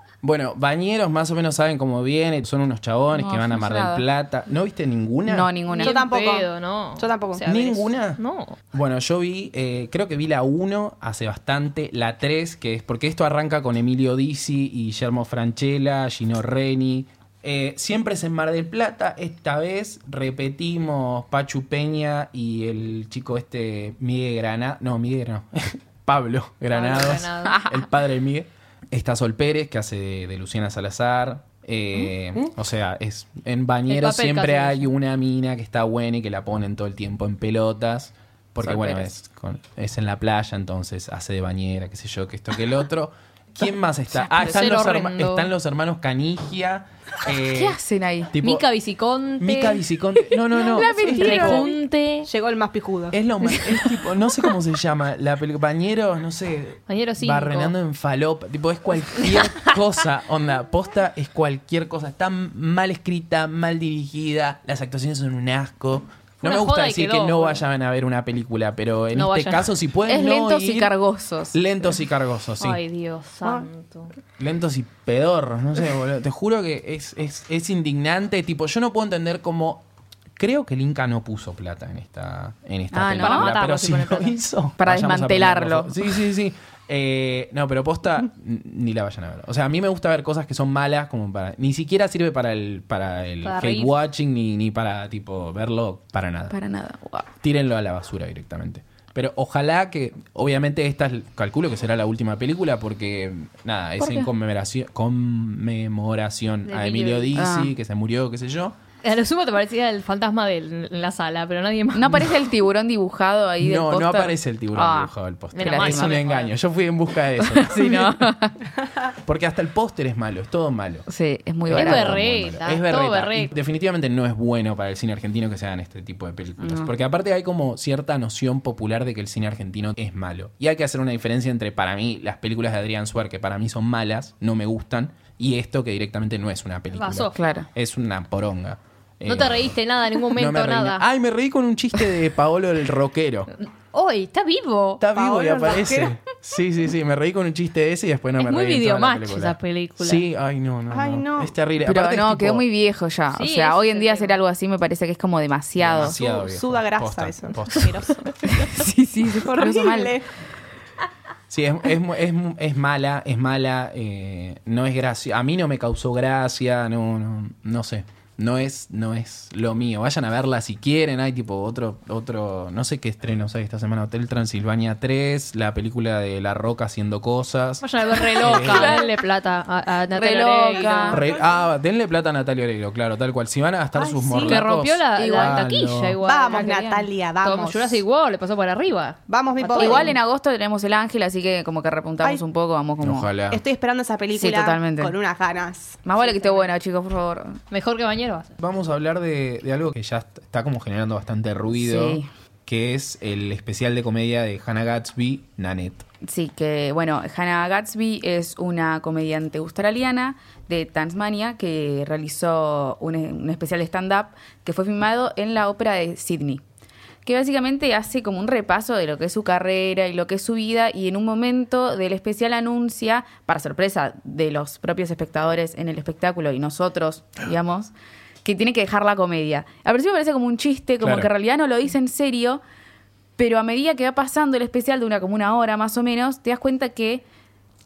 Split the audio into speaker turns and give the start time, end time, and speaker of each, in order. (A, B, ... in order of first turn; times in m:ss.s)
0:00.2-0:05.5 A
0:03.1-0:04.0 B
0:05.3-0:06.0 B
0:05.7-0:08.6 C
0:05.7-0:07.4 D
0:07.5-0:08.2 A
0:08.7-0:47.8 A
0:26.7-0:27.6 C
0:27.5-0:27.8 B
0:33.9-0:34.9 C
0:38.6-0:39.1 B
0:44.3-0:44.6 B
0:44.3-0:45.5 C
0:47.5-0:48.3 B
0:48.3-0:48.6 A
0:48.4-0:49.8 C
0:49.4-0:51.7 A
0:50.5-0:51.7 B
0:50.7-0:52.3 C
0:52.3-0:53.2 D
0:53.1-1:10.9 A
0:56.9-0:57.7 C
1:06.4-1:07.6 C
1:09.1-1:09.7 C
1:10.1-1:11.6 B
1:11.5-1:12.8 A
1:12.6-1:14.1 C
1:14.4-1:19.8 A
1:20.4-1:36.6 A
1:22.9-1:23.5 B
1:23.2-1:24.4 C
1:24.8-1:26.2 B
1:33.4-1:34.0 C
1:36.5-1:37.3 B
1:37.4-1:48.8 A
1:44.0-1:44.3 B
1:46.7-1:47.4 C
1:47.3-1:47.7 B
1:49.0-1:52.4 C
1:51.9-1:56.2 B
1:53.6-1:58.3 A
1:55.6-1:56.5 C
1:57.4-1:58.6 B
1:59.0-2:01.1 A
2:01.1-2:02.2 B
2:01.7-2:23.5 A
2:01.7-2:03.5 C
2:06.6-2:06.9 B
2:16.9-2:17.4 C
2:17.4-2:17.7 B
2:19.3-2:21.0 C
2:23.6-2:25.0 C
2:25.0-2:32.6 A
2:25.1-2:26.2 D
2:28.4-2:30.2 C
2:30.9-2:31.6 D
2:31.8-2:36.2 B
2:33.3-2:34.4 C
2:35.8-2:38.2 A
2:36.0-2:40.3 D
2:38.5-2:40.2 B
2:41.5-2:59.0 A
2:57.8-3:01.2 C
2:58.4-2:59.1 B
3:00.1-3:01.2 B
3:01.0-3:01.4 D
3:01.1-3:06.2 A
3:04.0-3:04.6 D
3:04.4-3:06.8 C
3:05.2-3:05.7 B
3:06.2-3:08.0 D
3:06.5-3:07.1 B
3:07.4-3:10.2 C
3:09.3-3:10.2 D
3:09.7-3:13.3 B
3:13.0-3:13.6 A
3:13.5-3:16.0 D
3:14.3-3:15.1 B
3:16.0-3:17.6 B
3:16.2-3:16.7 C
3:17.7-3:18.6 C
3:18.6-3:26.1 A
3:21.7-3:22.3 B
3:26.2-3:36.6 B
3:37.2-3:47.9 B
3:48.4-3:52.6 B
3:51.0-3:51.3 A
3:53.4-3:57.2 B